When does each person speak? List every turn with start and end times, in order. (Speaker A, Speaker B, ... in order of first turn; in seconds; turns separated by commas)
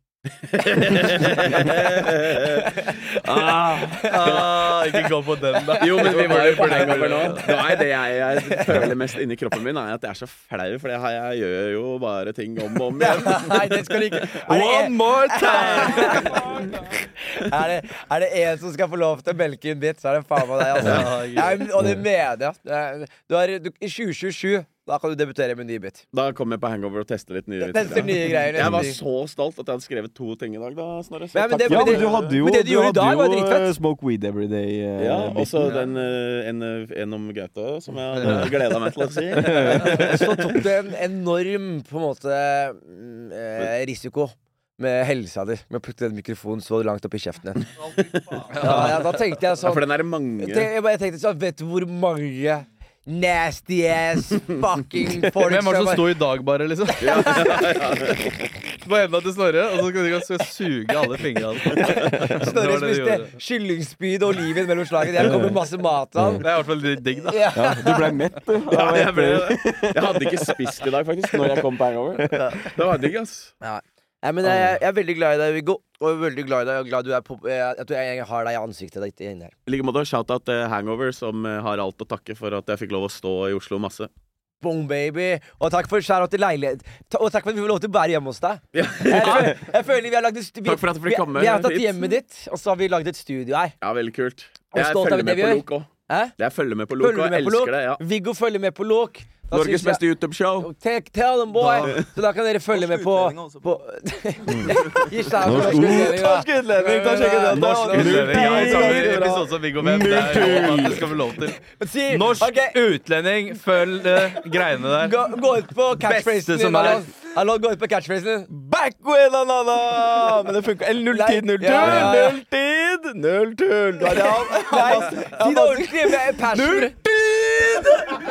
Speaker A: 0.4-4.7, Speaker B: 0.9-4.6, Speaker C: 4.1-7.8, Speaker B: 5.7-8.9, Speaker A: 5.8-13.9, Speaker B: 13.0-26.0, Speaker C: 14.5-16.4, Speaker C: 20.7-21.6, Speaker A: 20.8-21.1, Speaker A: 26.1-32.3, Speaker B: 27.6-29.0, Speaker D: 28.6-28.9, Speaker B: 31.3-33.8, Speaker D: 31.7-35.7, Speaker A: 35.0-40.2, Speaker C: 35.6-35.9, Speaker C: 38.1-38.9, Speaker D: 39.3-40.6, Speaker B: 39.8-47.7, Speaker B: 48.4-49.9, Speaker C: 48.5-49.2, Speaker A: 48.6-50.7, Speaker B: 50.4-56.2, Speaker C: 55.4-58.1, Speaker A: 57.0-58.3, Speaker B: 57.0-57.8, Speaker C: 58.8-63.3, Speaker D: 61.8-62.2, Speaker B: 62.3-66.5, Speaker D: 65.2-65.6, Speaker D: 66.2-66.4, Speaker C: 66.4-67.6, Speaker B: 67.3-68.2, Speaker D: 67.5-70.8, Speaker A: 68.7-73.5, Speaker D: 72.2-72.8, Speaker B: 73.6-79.5, Speaker A: 79.7-84.1, Speaker B: 84.6-93.8, Speaker A: 88.7-89.7, Speaker A: 90.7-92.1, Speaker A: 93.8-98.0, Speaker B: 94.7-96.3, Speaker B: 97.0-100.0, Speaker A: 99.5-100.7, Speaker B: 100.6-109.2, Speaker C: 101.6-101.9, Speaker A: 101.8-102.1, Speaker E: 103.1-103.3, Speaker D: 104.5-104.7, Speaker A: 104.7-105.1, Speaker D: 105.4-106.4, Speaker E: 105.8-108.3, Speaker D: 107.1-111.2, Speaker C: 107.8-115.2, Speaker B: 111.8-112.8, Speaker B: 115.0-118.5, Speaker C: 116.0-117.0, Speaker E: 118.5-127.7, Speaker B: 121.1-122.4, Speaker D: 121.8-122.2, Speaker B: 124.0-126.9